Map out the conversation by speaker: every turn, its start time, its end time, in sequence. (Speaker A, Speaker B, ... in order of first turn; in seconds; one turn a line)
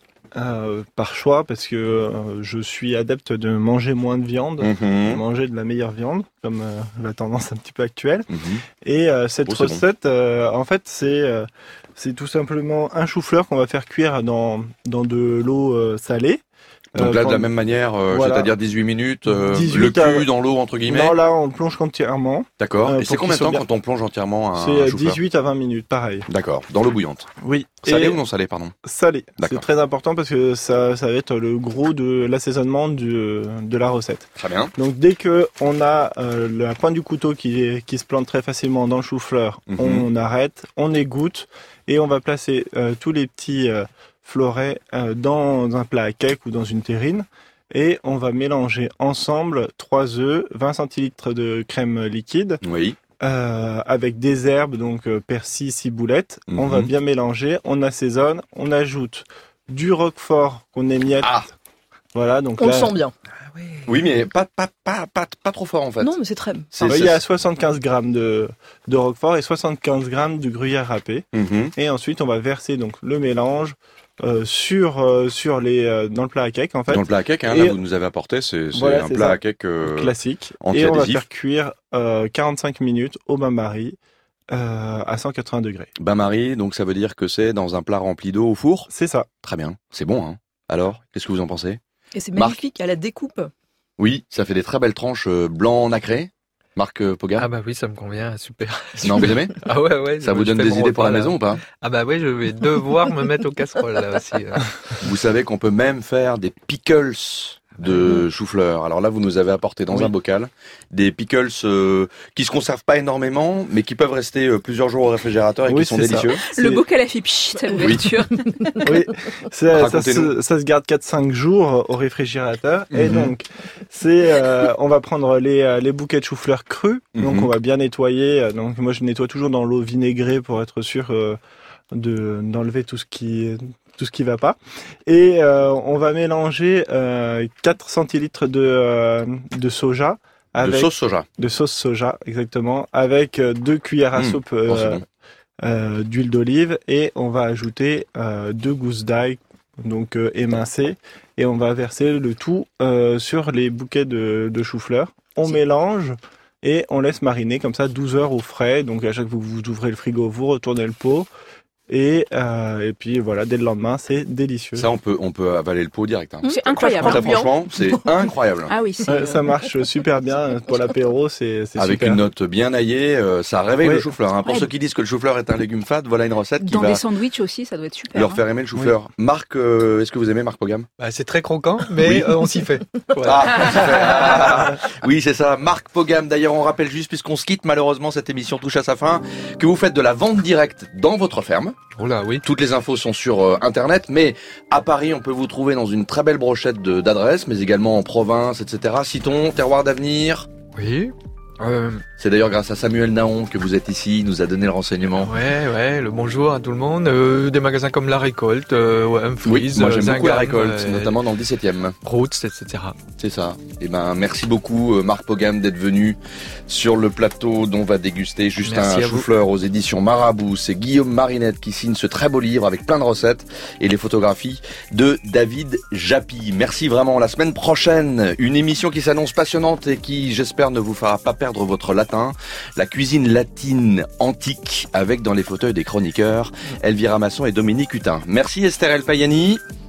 Speaker A: 0.3-8.3
Speaker B: 4.6-5.2
Speaker B: 8.3-8.6
Speaker A: 8.8-16.4
Speaker B: 9.4-9.8
Speaker A: 16.9-17.5
Speaker B: 16.9-21.1
Speaker A: 18.1-18.5
Speaker A: 19.3-20.3
Speaker A: 20.8-23.6
Speaker B: 22.6-25.2
Speaker A: 24.5-26.3
Speaker B: 26.3-27.3
Speaker A: 27.4-28.2
Speaker B: 27.8-28.7
Speaker A: 28.8-52.6
Speaker B: 34.4-34.7
Speaker B: 39.7-40.0
Speaker B: 52.6-53.0
Speaker A: 53.2-61.4
Speaker B: 56.5-56.9
Speaker B: 61.2-61.5
Speaker A: 62.1-62.9
Speaker C: 62.6-63.1
Speaker B: 63.9-66.2
Speaker C: 66.0-66.7
Speaker B: 66.7-67.2
Speaker A: 66.8-77.8
Speaker B: 71.3-71.7
Speaker B: 76.9-81.2
Speaker A: 78.7-84.0
Speaker A: 84.5-85.9
Speaker B: 86.0-88.9
Speaker A: 88.9-89.3
Speaker B: 89.4-91.8
Speaker C: 92.1-93.5
Speaker B: 94.0-97.5
Speaker D: 97.4-104.7
Speaker B: 99.0-99.6
Speaker B: 100.2-101.6
Speaker B: 105.0-116.4
Speaker A: 115.7-116.8
Speaker E: 116.5-118.5
Speaker B: 117.8-118.0
Speaker C: 118.4-118.8
Speaker A: 118.8-131.4
Speaker B: 119.7-120.3
Speaker B: 122.9-123.3
Speaker B: 127.2-127.5
Speaker A: 131.9-145.0
Speaker B: 140.6-141.2
Speaker B: 144.2-145.0
Speaker A: 145.6-161.3
Speaker A: 161.9-164.8
Speaker B: 164.8-166.5
Speaker C: 166.4-168.2
Speaker E: 166.5-167.5
Speaker B: 167.0-168.7
Speaker E: 168.7-169.4
Speaker A: 169.1-172.2
Speaker B: 171.8-177.0
Speaker E: 176.6-178.4
Speaker B: 178.1-180.9
Speaker D: 181.0-184.3
Speaker B: 182.0-182.3
Speaker B: 183.2-191.8
Speaker D: 192.0-192.4
Speaker B: 192.4-200.5
Speaker D: 200.7-202.0
Speaker B: 202.2-205.3
Speaker D: 205.2-211.2
Speaker B: 209.4-211.9
Speaker D: 212.0-213.0
Speaker B: 213.2-239.6
Speaker D: 218.6-219.3